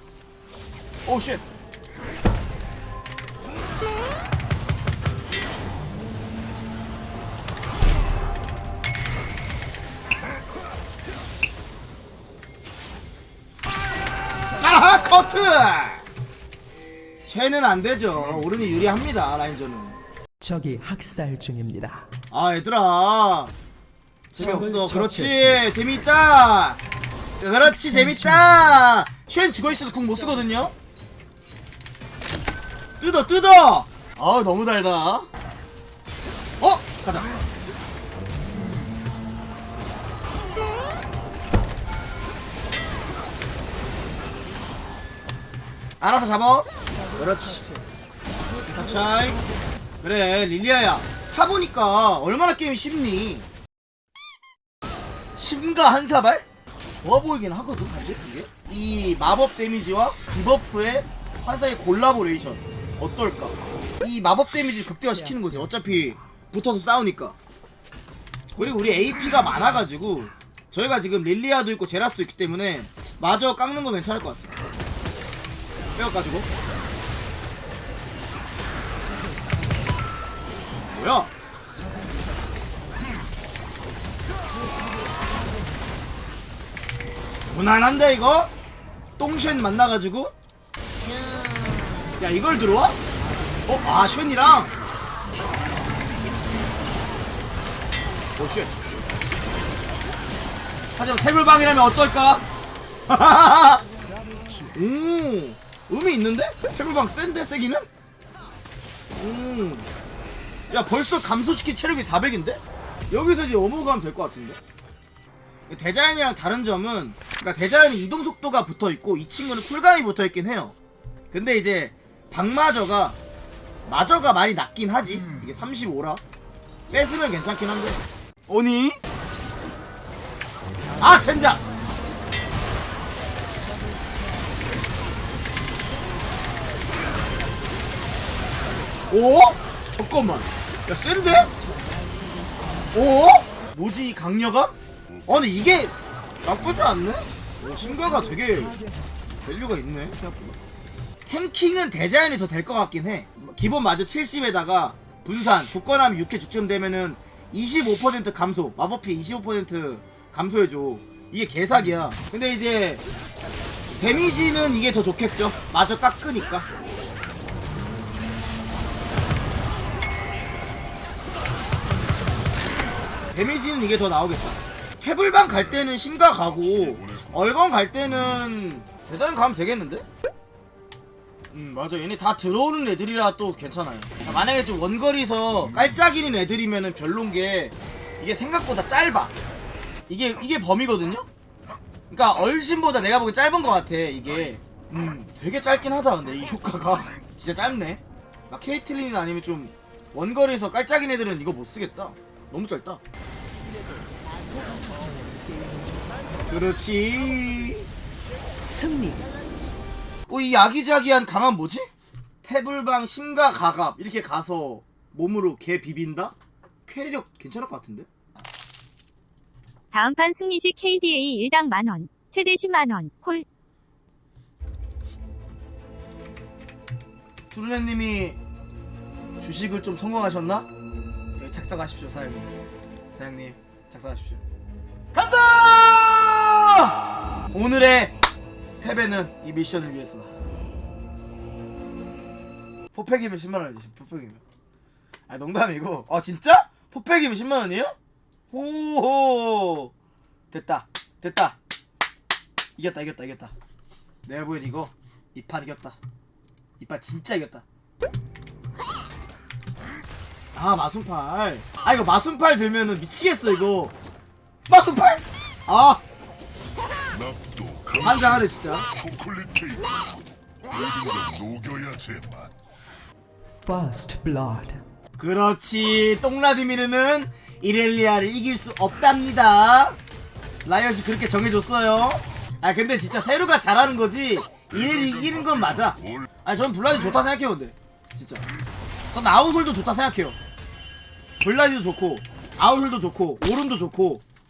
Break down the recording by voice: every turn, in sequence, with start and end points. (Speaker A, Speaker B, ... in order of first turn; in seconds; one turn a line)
Speaker A: 1.1-1.4
Speaker A: 14.6-16.0
Speaker A: 17.2-20.0
Speaker B: 20.4-22.1
Speaker A: 22.3-23.5
Speaker A: 24.3-26.8
Speaker B: 24.4-25.7
Speaker A: 27.4-30.7
Speaker B: 27.6-28.8
Speaker A: 33.0-35.3
Speaker A: 36.6-37.4
Speaker A: 46.0-47.6
Speaker B: 46.9-48.0
Speaker B: 48.5-49.4
Speaker A: 48.7-49.4
Speaker A: 50.0-53.5
Speaker A: 55.4-67.4
Speaker B: 65.2-65.9
Speaker A: 68.6-74.5
Speaker A: 75.9-76.5
Speaker B: 79.0-80.0
Speaker A: 80.8-81.3
Speaker B: 81.7-83.1
Speaker B: 84.5-85.7
Speaker A: 87.5-88.5
Speaker A: 89.2-90.3
Speaker A: 92.2-93.0
Speaker A: 93.7-94.7
Speaker A: 98.4-98.7
Speaker A: 101.0-102.4
Speaker A: 103.1-103.8
Speaker B: 104.0-104.7
Speaker A: 104.7-107.9
Speaker A: 109.1-109.9
Speaker A: 110.7-114.6
Speaker A: 115.7-120.7
Speaker A: 121.3-123.2
Speaker A: 123.9-126.2
Speaker A: 126.9-129.0
Speaker B: 130.8-132.1
Speaker A: 131.0-131.6
Speaker B: 133.6-134.8
Speaker B: 138.4-139.2
Speaker A: 139.1-141.5
Speaker B: 141.3-143.1
Speaker A: 142.9-144.7
Speaker A: 145.3-148.8
Speaker B: 147.8-149.4
Speaker A: 149.4-150.6
Speaker A: 151.3-163.0
Speaker A: 163.9-166.7
Speaker A: 173.3-180.1
Speaker C: 176.8-177.3
Speaker A: 181.5-189.3
Speaker A: 190.1-191.2
Speaker A: 192.1-203.0
Speaker B: 204.3-206.5
Speaker A: 206.5-207.9
Speaker B: 208.5-209.3
Speaker A: 210.3-211.9
Speaker A: 212.4-216.3
Speaker A: 216.9-218.1
Speaker D: 219.9-223.4
Speaker A: 227.5-228.4
Speaker A: 229.4-230.7
Speaker A: 231.4-232.5
Speaker A: 233.1-234.4
Speaker A: 235.1-237.0
Speaker A: 237.5-238.1
Speaker A: 238.8-240.3
Speaker A: 242.9-244.4
Speaker A: 245.3-247.9
Speaker A: 248.5-249.9
Speaker A: 250.5-251.6
Speaker A: 252.8-253.5
Speaker A: 254.2-256.0
Speaker A: 256.8-257.6
Speaker A: 260.6-263.9
Speaker A: 264.7-266.0
Speaker C: 267.1-272.5
Speaker A: 268.0-268.9
Speaker B: 273.6-274.8
Speaker A: 275.2-280.0
Speaker A: 280.6-288.4
Speaker C: 284.7-286.2
Speaker A: 289.1-290.4
Speaker A: 291.4-294.2